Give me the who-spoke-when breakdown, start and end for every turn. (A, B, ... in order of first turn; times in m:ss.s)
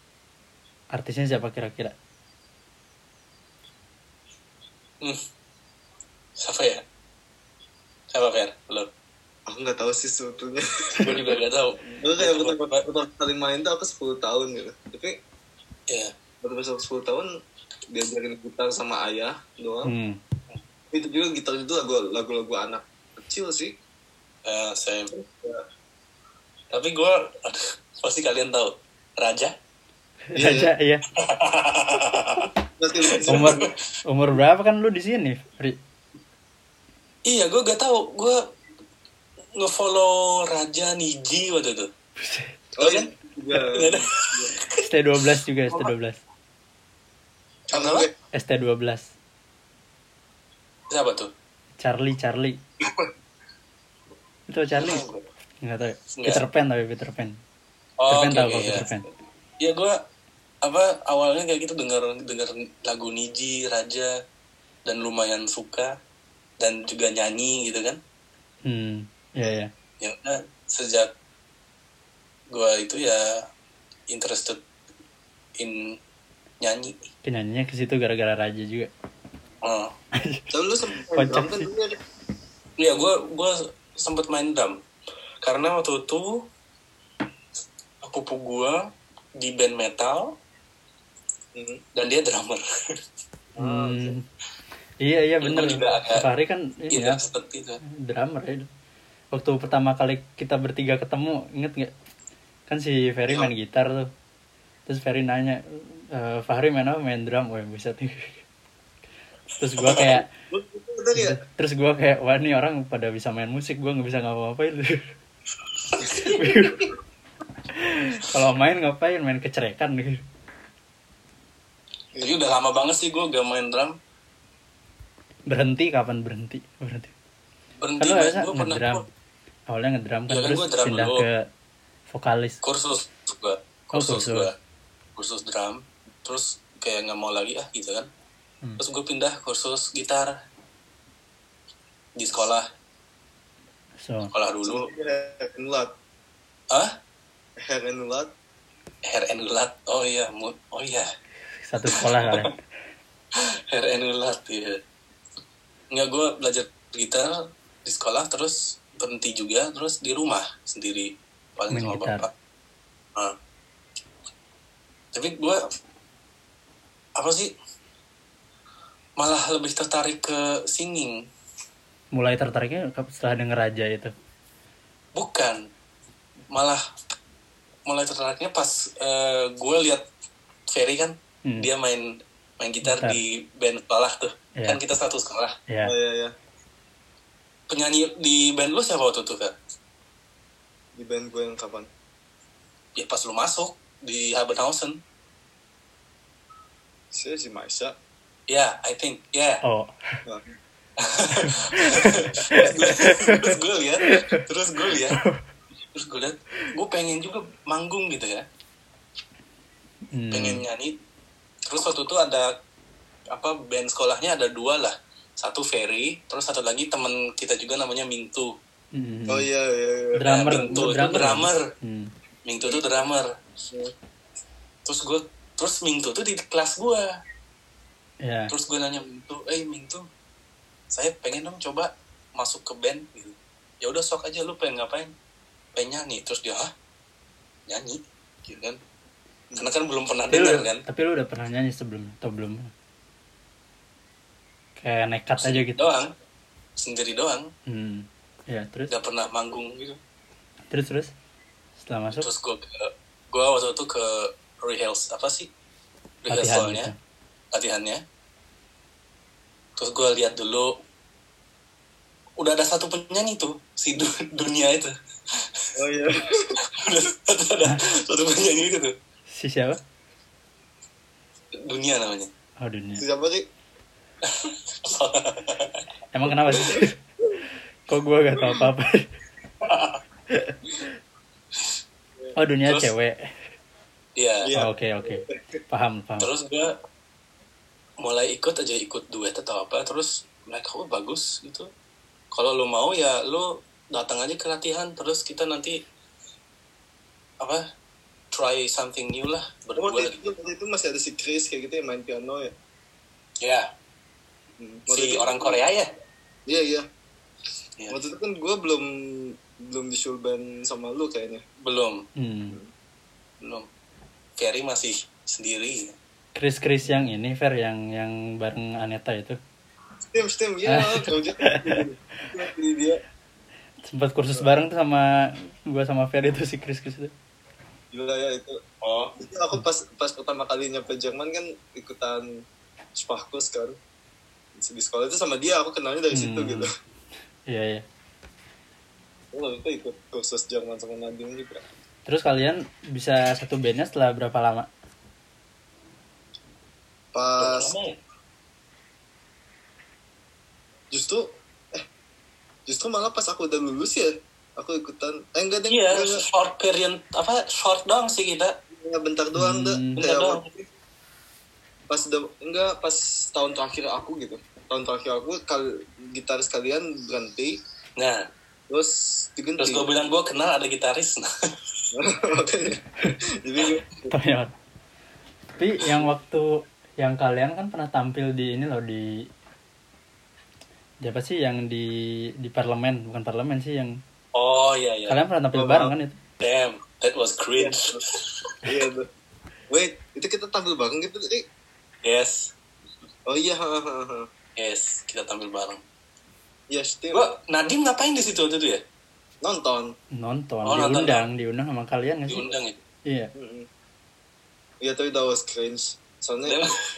0:00.9-0:01.9 A
0:06.4-0:06.8 B
0:08.1-0:08.9 B
0:09.5-0:11.4 C
0:11.0-0:12.8 B
0:11.9-0:15.2 C
0:16.4-0:17.3 C
0:17.9-0:19.9 C
0:19.8-0:20.2 A
0:20.9-0:23.7 C
0:24.4-0:25.1 B
0:25.1-0:25.6 C
0:26.7-0:29.5 B
0:30.3-0:31.0 A
0:30.4-0:30.7 C
0:31.2-0:32.5 B
0:32.8-0:33.6 C
0:33.0-0:33.7 B
0:33.3-0:35.8 A
0:37.3-0:38.4 B
0:39.6-0:41.9 B
0:42.2-0:42.5 A
0:42.8-0:44.5 C
0:42.8-0:44.7 B
0:44.8-0:46.2 A
0:47.7-0:48.1 B
0:47.7-0:48.1 C
0:48.3-0:49.1 A
0:50.9-0:51.3 B
0:51.8-0:52.6 A
0:54.5-0:55.0 A
0:55.6-0:57.4 A
0:56.2-0:56.4 B
0:58.0-0:58.9 B
0:58.1-0:59.1 A
0:59.6-1:00.0 B
1:00.6-1:04.1 B
1:04.8-1:06.0 B
1:06.6-1:08.0 B
1:08.6-1:09.7 A
1:10.0-1:11.1 B
1:12.5-1:13.4 B
1:14.1-1:14.6 B
1:15.6-1:16.0 B
1:16.6-1:17.0 B
1:17.2-1:18.9 A
1:19.6-1:19.9 B
1:20.1-1:21.7 A
1:20.5-1:22.0 C
1:22.8-1:24.8 B
1:25.4-1:26.5 B
1:28.0-1:28.8 B
1:29.4-1:30.4 B
1:31.6-1:31.8 C
1:31.9-1:32.6 B
1:33.6-1:34.2 C
1:33.6-1:34.2 A
1:35.0-1:37.2 A
1:35.4-1:36.3 B
1:36.9-1:37.8 B
1:37.9-1:38.7 A
1:39.3-1:41.9 A
1:42.7-1:44.1 A
1:44.9-1:48.4 A
1:49.6-1:50.3 A
1:49.8-1:50.2 B
1:50.5-1:51.4 C
1:51.1-1:55.1 A
1:55.9-1:56.4 B
1:56.1-1:56.9 A
1:57.7-2:00.2 A
2:02.2-2:04.0 B
2:05.5-2:07.1 A
2:07.8-2:09.0 B
2:08.0-2:09.0 A
2:09.7-2:11.5 A
2:10.3-2:11.3 B
2:12.1-2:12.6 A
2:12.6-2:14.5 B
2:13.9-2:14.5 A
2:15.2-2:18.1 B
2:18.8-2:20.4 B
2:22.2-2:22.7 B
2:24.0-2:24.3 A
2:24.3-2:24.9 B
2:24.6-2:25.9 C
2:26.7-2:27.0 B
2:27.6-2:28.3 C
2:29.1-2:31.1 B
2:31.6-2:32.6 A
2:31.9-2:32.5 B
2:33.4-2:34.8 B
2:35.9-2:42.3 B
2:41.7-2:42.3 A
2:45.1-2:45.6 B
2:47.2-2:47.5 B
2:49.2-2:51.1 B
2:52.1-2:54.1 A
2:55.1-2:55.6 B
2:56.5-2:56.8 B
2:57.9-3:00.0 B
3:00.7-3:05.6 B
3:02.8-3:03.2 A
3:05.7-3:05.9 A
3:05.8-3:06.3 C
3:07.7-3:09.6 B
3:11.0-3:11.9 C
3:13.0-3:15.0 B
3:17.1-3:17.9 C
3:18.5-3:19.6 B
3:19.6-3:20.2 A
3:20.3-3:20.5 C
3:21.0-3:25.2 B
3:21.4-3:24.4 A
3:25.0-3:25.4 A
3:25.9-3:28.4 B
3:30.1-3:30.6 A
3:30.3-3:31.0 B
3:31.7-3:32.5 B
3:33.3-3:38.5 B
3:38.9-3:39.5 A
3:39.3-3:40.8 C
3:40.1-3:42.1 A
3:40.3-3:41.6 B
3:42.4-3:43.3 B
3:44.8-3:47.2 B
3:48.2-3:48.5 A
3:48.5-3:50.0 B
3:50.9-3:55.1 B
3:55.8-3:56.7 B
3:57.7-3:58.8 B
3:59.6-4:00.8 B
4:00.3-4:02.7 A
4:04.8-4:05.8 A
4:05.4-4:06.1 B
4:06.8-4:07.5 B
4:07.7-4:08.9 A
4:08.9-4:10.0 B
4:10.7-4:11.1 A
4:11.8-4:12.3 A
4:12.1-4:15.5 B
4:16.2-4:16.9 B
4:16.3-4:16.9 A
4:17.5-4:18.0 B
4:19.8-4:20.8 B
4:22.4-4:25.6 B
4:25.8-4:26.6 C
4:26.7-4:28.9 B
4:29.3-4:29.8 A
4:31.6-4:32.3 B
4:32.6-4:33.0 A
4:33.0-4:33.4 C
4:34.2-4:35.8 B
4:36.1-4:37.0 A
4:37.9-4:39.1 A
4:39.6-4:40.0 B
4:40.3-4:40.9 A
4:42.4-4:43.3 A
4:44.2-4:44.6 B
4:44.4-4:45.3 C
4:44.6-4:46.3 A
4:46.2-4:46.8 B
4:48.0-4:51.7 B
4:52.3-4:55.8 B
4:58.3-5:00.2 B
4:59.8-5:02.5 C
5:03.4-5:03.7 B
5:04.6-5:05.6 C
5:04.9-5:05.9 B
5:06.5-5:06.8 C
5:07.9-5:11.4 C
5:11.6-5:12.1 B
5:12.2-5:12.6 A
5:13.4-5:13.7 B
5:14.4-5:15.9 B
5:16.4-5:19.4 A
5:20.1-5:23.0 C
5:20.7-5:22.3 A
5:23.8-5:27.1 A
5:27.9-5:28.6 C
5:28.8-5:29.1 B
5:29.2-5:32.3 C
5:33.0-5:33.8 C
5:34.6-5:36.7 C
5:36.1-5:36.7 A
5:37.5-5:37.8 A
5:39.3-5:41.6 C
5:42.1-5:44.7 A
5:47.1-5:47.8 C
5:47.4-5:48.0 B
5:50.9-5:51.8 C
5:52.7-5:56.2 C
5:55.7-5:58.6 B
5:58.7-6:00.5 C
5:59.4-6:00.0 A
6:00.0-6:00.5 B
6:01.9-6:07.6 C
6:08.0-6:08.2 B
6:08.7-6:09.9 C
6:09.6-6:11.3 B
6:11.9-6:14.1 C
6:14.1-6:14.5 A
6:15.6-6:19.2 A
6:21.0-6:21.9 A
6:22.4-6:24.0 A
6:24.3-6:25.2 B
6:25.1-6:26.2 A
6:25.6-6:25.9 C
6:26.4-6:28.5 B
6:27.6-6:28.0 C
6:28.6-6:29.1 C
6:29.7-6:31.4 C
6:32.0-6:32.5 B
6:33.3-6:34.3 C
6:34.6-6:35.8 B
6:36.7-6:37.3 C
6:37.1-6:38.8 B
6:39.4-6:39.9 C
6:40.1-6:42.4 A
6:40.6-6:41.3 B
6:42.3-6:42.8 B
6:43.4-6:43.7 C
6:44.8-6:46.6 C
6:46.4-6:46.8 B